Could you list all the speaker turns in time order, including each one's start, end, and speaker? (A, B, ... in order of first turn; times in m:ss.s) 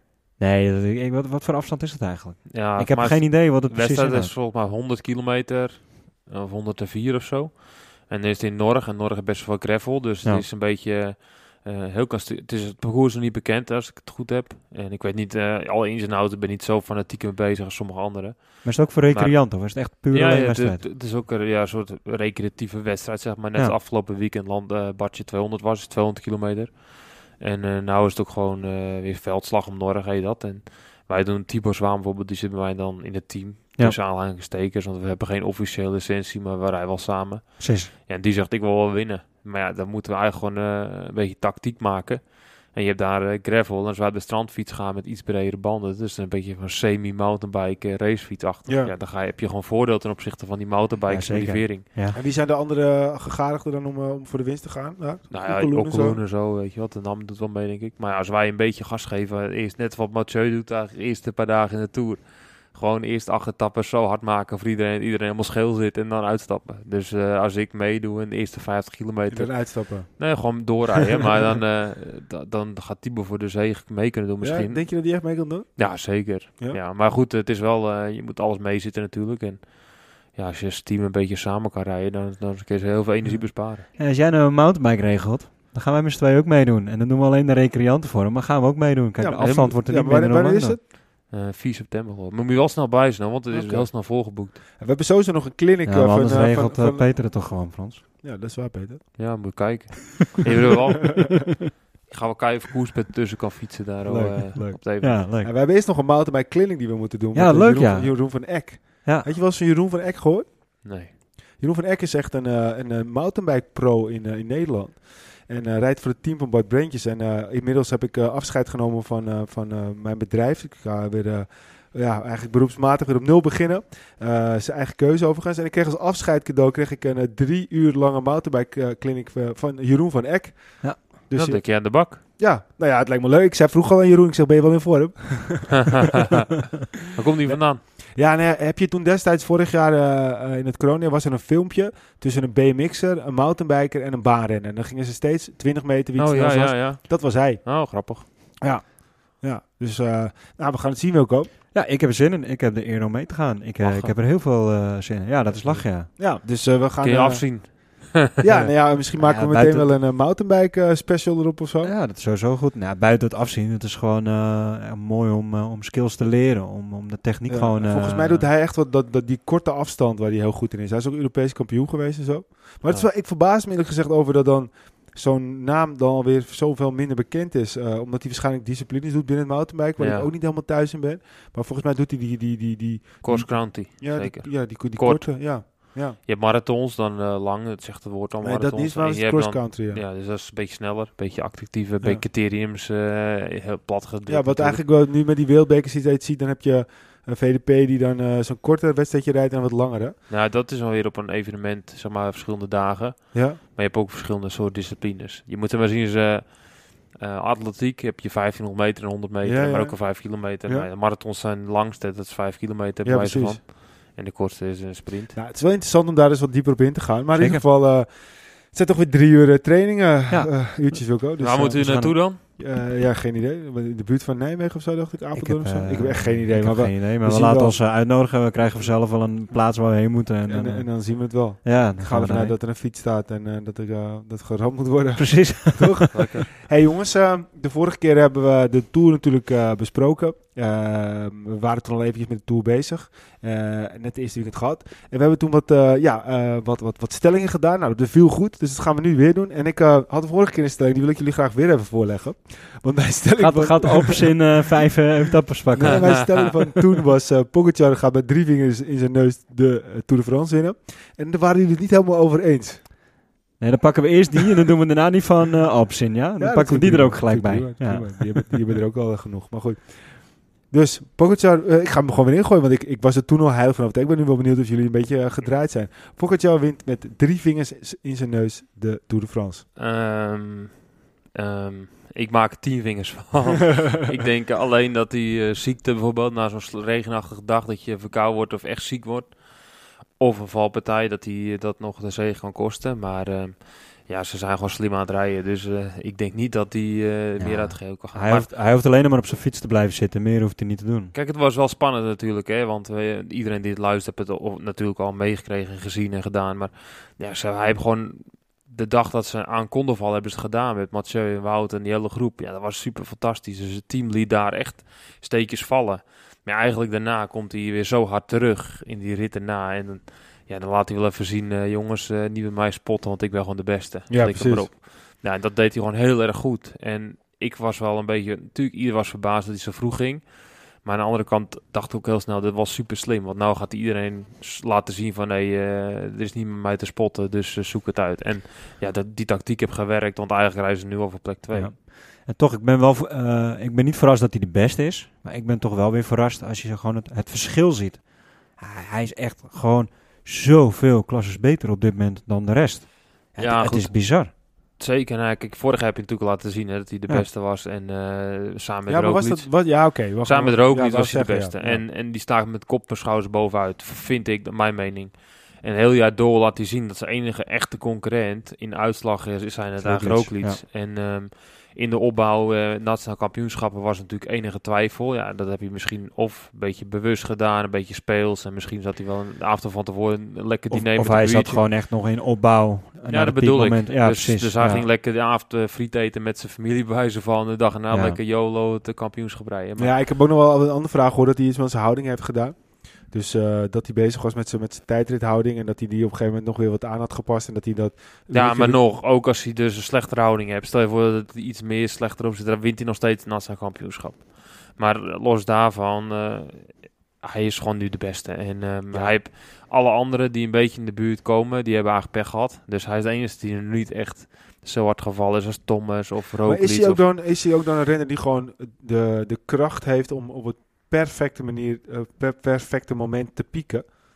0:00.4-0:04.3 A
0:02.5-0:51.8 B
0:18.6-0:20.8 A
0:37.6-0:37.9 A
0:48.6-0:48.9 C
0:51.1-0:52.2 A
0:52.1-0:56.2 C
0:55.3-1:23.9 B
1:09.3-1:10.7 C
1:14.4-1:16.8 C
1:24.0-1:30.8 A
1:29.2-1:30.8 C
1:31.2-1:34.6 B
1:33.5-1:37.1 C
1:35.8-1:38.0 A
1:38.2-1:39.5 C
1:39.2-1:41.4 B
1:42.1-1:45.2 B
1:44.0-1:51.0 C
1:45.0-1:45.5 A
1:47.3-1:49.3 A
1:50.8-1:51.1 B
1:51.6-2:15.9 C
2:11.3-2:12.2 B
2:16.0-2:17.8 B
2:17.4-2:27.6 C
2:26.2-2:28.2 B
2:28.6-2:31.5 C
2:31.7-2:36.1 A
2:33.8-2:34.1 B
2:35.6-2:41.9 C
2:37.0-2:38.3 B
2:38.5-2:39.9 A
2:41.8-2:48.5 A
2:47.5-3:06.2 C
3:00.0-3:00.3 B
3:03.2-3:14.8 B
3:08.4-3:10.0 C
3:12.0-3:12.2 C
3:14.3-3:20.2 C
3:20.3-3:35.4 B
3:23.3-3:23.6 C
3:29.4-3:30.9 C
3:33.0-3:33.6 C
3:35.3-3:47.8 C
3:37.4-3:37.6 A
3:40.3-3:41.2 A
3:41.4-3:42.4 B
3:41.7-3:42.2 A
3:45.3-3:52.5 A
3:50.5-4:14.7 C
3:55.2-3:56.4 A
3:56.1-3:56.4 B
4:13.4-4:16.5 A
4:15.7-4:22.8 C
4:23.6-4:28.7 A
4:26.4-4:39.6 C
4:39.8-4:58.5 B
4:57.4-5:01.1 A
5:01.1-5:41.7 B
5:24.1-5:24.7 C
5:41.5-5:54.3 A
5:53.4-6:21.6 B
5:58.9-6:01.8 C
6:09.8-6:10.6 A
6:20.7-6:24.8 A
6:23.1-6:29.9 B
6:27.9-6:28.2 A
6:29.8-6:38.8 C
6:38.3-6:57.0 B
6:48.9-6:49.2 C
6:56.4-7:03.9 C